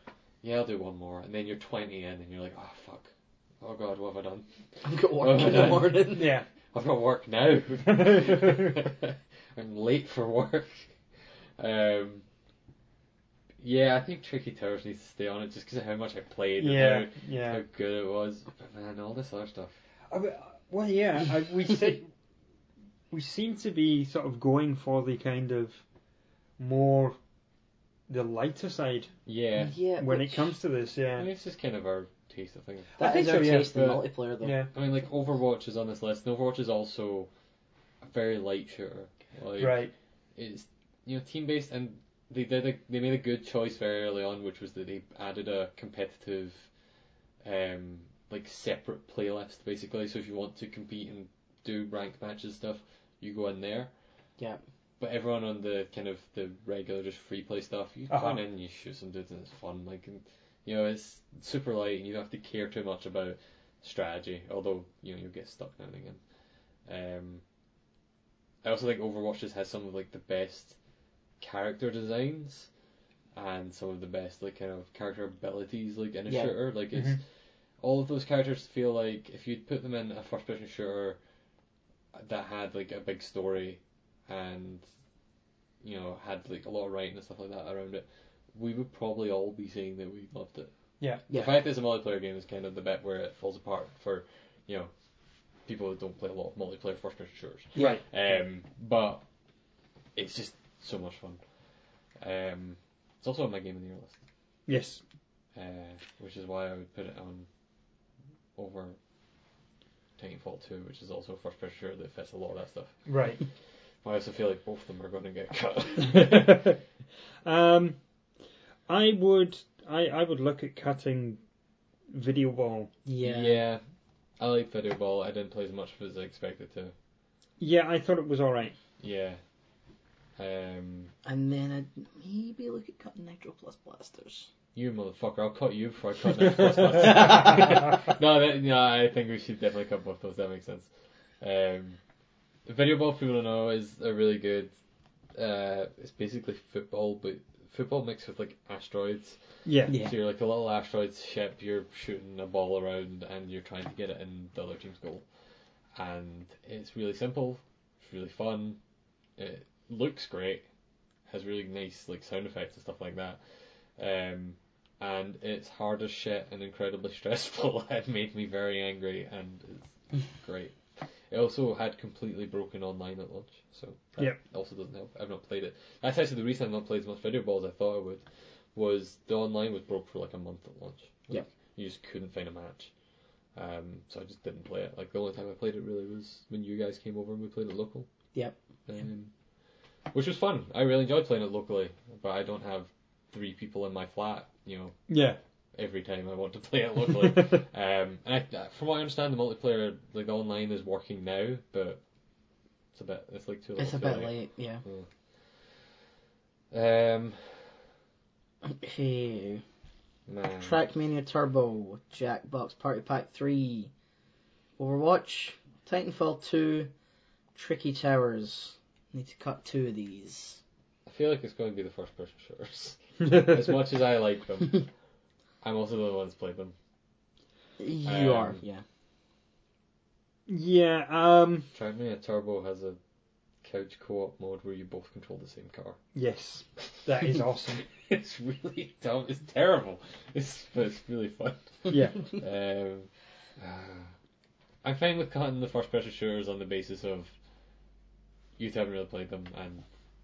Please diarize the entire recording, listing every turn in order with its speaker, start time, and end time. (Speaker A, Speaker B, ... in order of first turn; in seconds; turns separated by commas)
Speaker A: 0.4-6.2, Speaker B: 4.8-6.4, Speaker C: 5.4-6.5, Speaker A: 6.7-10.9, Speaker C: 7.9-8.7, Speaker A: 11.6-12.2, Speaker A: 13.6-19.8, Speaker C: 16.6-17.6, Speaker C: 20.1-22.1, Speaker C: 23.1-25.8, Speaker C: 26.6-27.2, Speaker C: 28.1-29.1, Speaker A: 29.3-29.8, Speaker B: 29.6-30.5, Speaker C: 30.0-31.3, Speaker A: 31.2-34.1, Speaker B: 33.0-34.6, Speaker C: 33.0-33.8, Speaker C: 34.4-34.7, Speaker A: 34.6-37.3, Speaker A: 38.0-46.7, Speaker C: 39.6-39.9, Speaker A: 47.4-53.9, Speaker A: 55.0-66.2, Speaker C: 58.1-58.4, Speaker A: 66.9-67.4, Speaker A: 68.6-70.8, Speaker A: 71.4-72.7, Speaker A: 73.3-77.2, Speaker B: 76.3-76.5, Speaker C: 76.9-77.2, Speaker A: 77.8-81.2, Speaker A: 82.1-84.8, Speaker A: 85.8-90.7, Speaker A: 91.2-94.9, Speaker B: 91.3-91.6, Speaker A: 95.7-99.2, Speaker C: 97.8-98.0, Speaker A: 100.2-101.4, Speaker A: 102.2-104.2, Speaker C: 104.7-105.0, Speaker A: 105.5-107.5, Speaker A: 108.6-109.0, Speaker A: 110.2-113.1, Speaker C: 113.1-113.4, Speaker A: 114.0-116.7, Speaker C: 116.0-116.8, Speaker C: 117.5-118.0, Speaker C: 118.9-121.4, Speaker C: 122.1-122.9, Speaker B: 123.1-123.6, Speaker A: 123.2-123.8, Speaker A: 124.4-126.9, Speaker C: 127.6-128.8, Speaker A: 129.0-129.4, Speaker A: 130.4-131.1, Speaker B: 131.2-134.5, Speaker A: 134.8-142.0, Speaker B: 136.9-137.8, Speaker A: 142.7-144.7, Speaker A: 145.3-155.2, Speaker C: 149.7-150.0, Speaker B: 149.9-150.2, Speaker A: 155.9-158.8, Speaker A: 159.4-160.7, Speaker A: 161.3-178.2, Speaker A: 178.8-182.9, Speaker A: 183.6-188.1, Speaker B: 188.3-188.6, Speaker A: 188.9-189.3, Speaker A: 190.1-195.0, Speaker C: 195.1-195.4, Speaker A: 195.7-202.0, Speaker C: 197.1-197.6, Speaker A: 202.9-205.8, Speaker B: 203.8-204.8, Speaker A: 206.7-207.7, Speaker B: 208.6-209.6, Speaker A: 210.3-210.8, Speaker B: 210.6-213.9, Speaker B: 214.8-216.9, Speaker B: 217.6-220.6, Speaker A: 221.1-224.9, Speaker A: 225.6-226.8, Speaker B: 227.8-228.8, Speaker A: 228.0-228.6, Speaker C: 230.5-231.7, Speaker A: 231.7-233.0, Speaker A: 233.6-236.0, Speaker C: 236.1-237.9, Speaker A: 237.9-244.2, Speaker C: 241.9-242.3, Speaker A: 244.8-247.3, Speaker A: 248.6-249.9